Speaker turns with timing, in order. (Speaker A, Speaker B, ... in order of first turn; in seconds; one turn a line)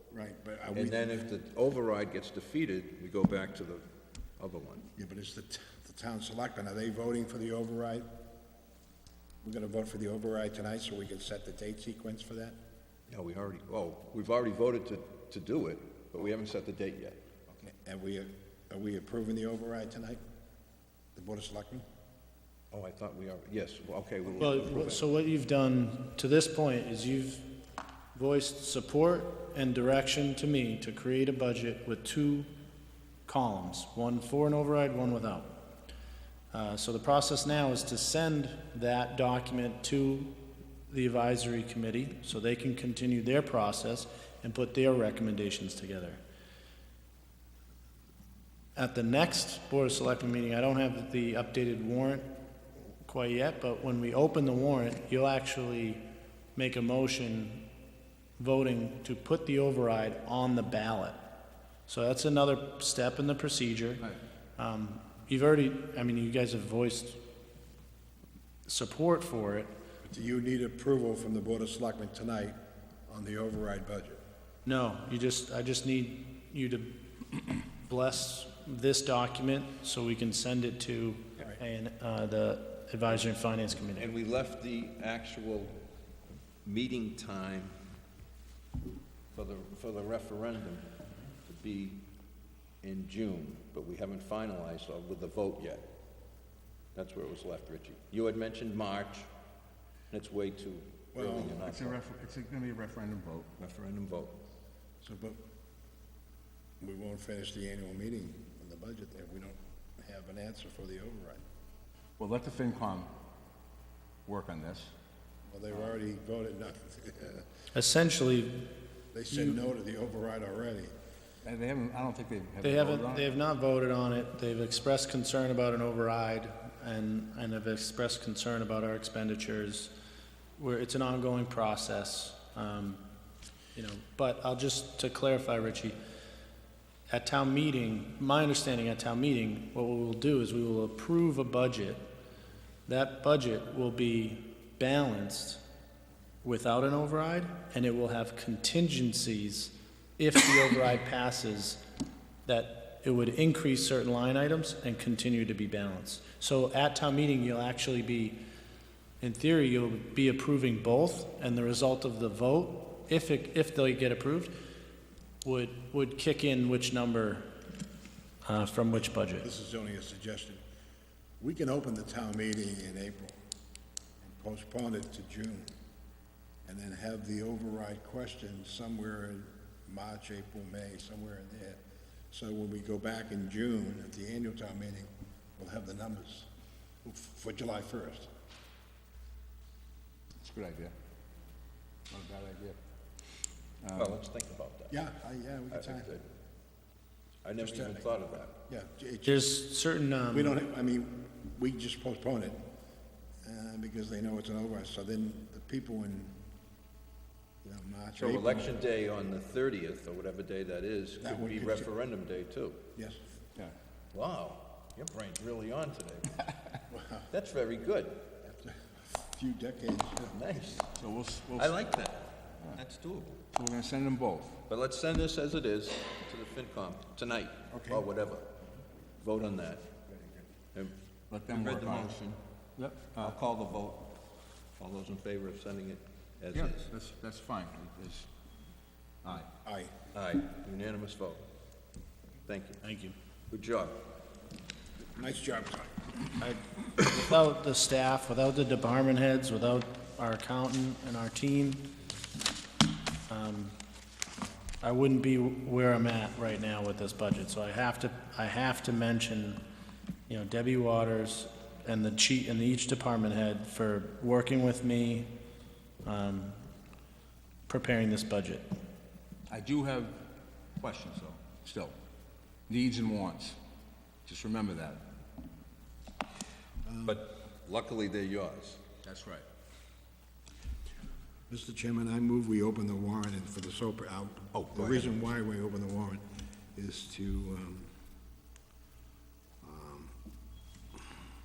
Speaker A: 0.1-1.2
Speaker B: 0.7-3.9
Speaker B: 4.4-4.9
Speaker A: 5.0-8.1
Speaker A: 9.4-12.6
Speaker B: 13.1-17.2
Speaker A: 17.5-20.2
Speaker A: 21.1-21.8
Speaker B: 22.7-25.0
Speaker C: 24.4-27.5
Speaker C: 28.1-32.5
Speaker C: 33.2-35.5
Speaker C: 36.5-40.3
Speaker C: 40.9-46.2
Speaker C: 48.8-52.3
Speaker C: 52.9-56.0
Speaker C: 56.5-57.6
Speaker C: 58.4-61.2
Speaker C: 61.9-67.2
Speaker C: 68.7-69.7
Speaker A: 70.0-72.6
Speaker A: 73.1-74.2
Speaker C: 74.7-76.9
Speaker C: 77.8-84.1
Speaker B: 83.9-85.8
Speaker B: 86.6-87.7
Speaker B: 89.3-90.8
Speaker B: 91.5-92.0
Speaker B: 92.8-95.8
Speaker B: 96.9-99.3
Speaker B: 100.1-102.0
Speaker A: 101.1-101.6
Speaker D: 101.5-103.5
Speaker B: 103.6-104.4
Speaker A: 105.0-105.4
Speaker A: 106.8-111.4
Speaker D: 112.2-113.1
Speaker D: 114.2-114.9
Speaker A: 115.5-117.4
Speaker C: 117.7-118.6
Speaker A: 119.1-120.9
Speaker C: 119.3-119.6
Speaker D: 121.4-123.3
Speaker C: 122.6-129.9
Speaker C: 130.6-133.0
Speaker C: 133.7-135.9
Speaker C: 137.1-142.1
Speaker C: 142.8-145.6
Speaker C: 146.4-151.8
Speaker C: 152.4-158.4
Speaker C: 159.2-164.5
Speaker C: 165.4-167.5
Speaker C: 168.4-169.5
Speaker A: 169.4-170.6
Speaker A: 171.4-173.4
Speaker A: 174.2-175.7
Speaker A: 176.6-181.8
Speaker A: 182.3-186.5
Speaker A: 187.0-188.3
Speaker D: 190.4-190.9
Speaker D: 192.1-192.8
Speaker D: 193.8-194.2
Speaker B: 193.9-195.0
Speaker A: 194.9-196.2
Speaker B: 195.7-196.2
Speaker B: 197.4-198.6
Speaker A: 197.6-198.1
Speaker A: 198.7-199.5
Speaker C: 199.2-200.6
Speaker A: 200.3-202.6
Speaker A: 203.4-206.3
Speaker A: 207.6-208.7
Speaker B: 208.2-212.8
Speaker A: 211.2-211.9
Speaker B: 214.1-216.4
Speaker A: 216.9-217.3
Speaker B: 217.3-218.2
Speaker A: 218.4-220.3
Speaker B: 220.2-220.9
Speaker D: 220.9-221.7
Speaker B: 221.5-223.4
Speaker D: 223.5-224.6
Speaker B: 224.7-228.5
Speaker A: 227.7-228.1
Speaker B: 229.2-230.0
Speaker D: 231.3-232.1
Speaker B: 231.5-232.4
Speaker D: 232.8-233.3
Speaker B: 233.1-234.1
Speaker B: 234.8-236.9
Speaker D: 236.5-238.3
Speaker D: 239.2-239.5
Speaker A: 239.6-239.9
Speaker B: 240.1-241.5
Speaker B: 242.4-242.8
Speaker C: 242.8-243.1
Speaker B: 243.5-243.9
Speaker A: 245.1-246.0
Speaker C: 246.4-251.8
Speaker C: 253.3-253.7
Speaker C: 254.8-259.6
Speaker C: 260.3-265.3
Speaker C: 266.0-266.6
Speaker C: 267.7-268.6
Speaker D: 269.5-270.2
Speaker D: 270.8-271.9
Speaker D: 272.7-273.6
Speaker D: 274.2-275.0
Speaker A: 276.8-277.2
Speaker B: 277.0-278.8
Speaker D: 279.0-279.4
Speaker A: 281.5-286.2
Speaker B: 284.5-285.1
Speaker A: 286.7-287.9
Speaker A: 289.6-290.1